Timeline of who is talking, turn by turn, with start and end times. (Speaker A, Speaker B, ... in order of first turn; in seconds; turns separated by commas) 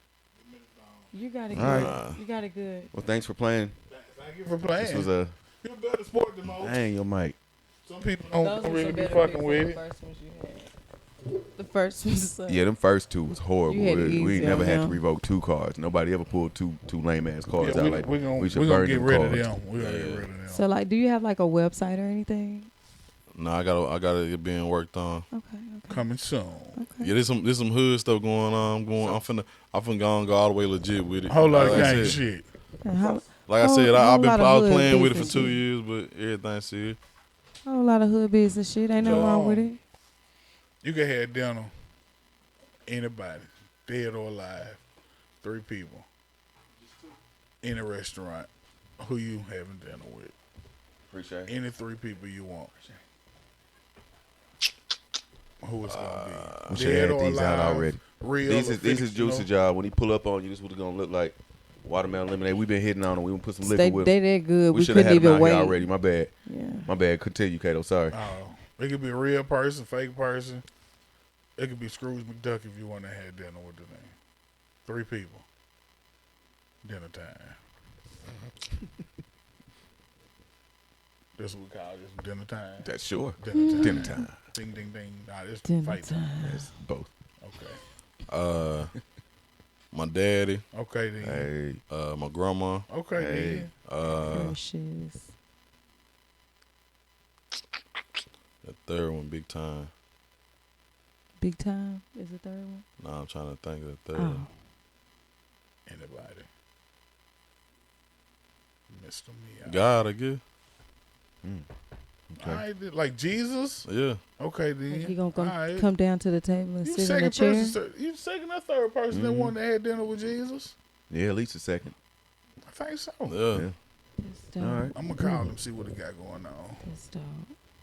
Speaker A: 0.4-1.1, Speaker B: 1.1-2.9, Speaker C: 1.5-1.9, Speaker D: 1.5-2.2, Speaker C: 2.9-3.7, Speaker A: 3.9-5.1, Speaker C: 4.8-5.3, Speaker A: 5.6-6.8, Speaker C: 6.4-7.4, Speaker A: 7.8-9.8, Speaker B: 8.3-10.7, Speaker B: 11.5-12.6, Speaker C: 12.5-19.5, Speaker B: 13.7-15.0, Speaker A: 17.6-20.6, Speaker D: 19.7-20.3, Speaker B: 20.5-22.7, Speaker D: 23.3-25.2, Speaker B: 25.3-26.0, Speaker A: 25.9-26.8, Speaker B: 26.8-27.1, Speaker D: 27.0-32.2, Speaker A: 31.3-32.5, Speaker C: 31.6-31.9, Speaker B: 31.6-32.0, Speaker B: 32.8-35.6, Speaker D: 33.5-37.0, Speaker B: 37.6-39.8, Speaker A: 39.0-39.7, Speaker D: 39.0-39.3, Speaker A: 40.8-41.7, Speaker A: 42.9-44.8, Speaker A: 45.4-46.0, Speaker A: 47.6-48.5, Speaker A: 49.0-50.3, Speaker C: 51.1-51.5, Speaker A: 51.5-52.8, Speaker A: 55.6-59.5, Speaker D: 55.9-56.9, Speaker C: 56.7-64.1, Speaker B: 63.6-65.8, Speaker C: 64.7-66.3, Speaker B: 66.5-66.9, Speaker C: 66.8-68.2, Speaker A: 68.1-70.6, Speaker A: 71.6-74.1, Speaker A: 74.8-75.5, Speaker A: 76.8-77.6, Speaker A: 81.4-82.9, Speaker C: 82.8-84.4, Speaker A: 83.4-86.2, Speaker B: 83.5-84.3, Speaker B: 85.6-86.7, Speaker C: 86.4-87.1, Speaker A: 87.4-87.8, Speaker D: 88.3-88.9, Speaker D: 89.9-90.6, Speaker A: 90.7-91.5, Speaker C: 91.2-91.8, Speaker D: 91.9-92.9, Speaker A: 92.9-93.7, Speaker C: 93.2-93.7, Speaker D: 93.8-94.6, Speaker B: 94.3-95.3, Speaker D: 98.6-99.9, Speaker B: 101.4-102.8, Speaker D: 103.0-104.4, Speaker B: 104.1-104.5, Speaker A: 105.8-106.5, Speaker A: 108.9-109.9, Speaker D: 109.6-110.4, Speaker C: 112.3-112.6, Speaker A: 112.4-113.9, Speaker D: 113.8-114.2, Speaker A: 114.4-115.9, Speaker B: 114.9-117.8, Speaker A: 116.8-120.7, Speaker C: 119.1-119.5, Speaker C: 121.1-121.9, Speaker A: 122.7-123.4, Speaker D: 123.3-123.7, Speaker B: 124.2-125.5, Speaker C: 124.6-124.9, Speaker A: 124.9-126.8, Speaker B: 126.8-127.5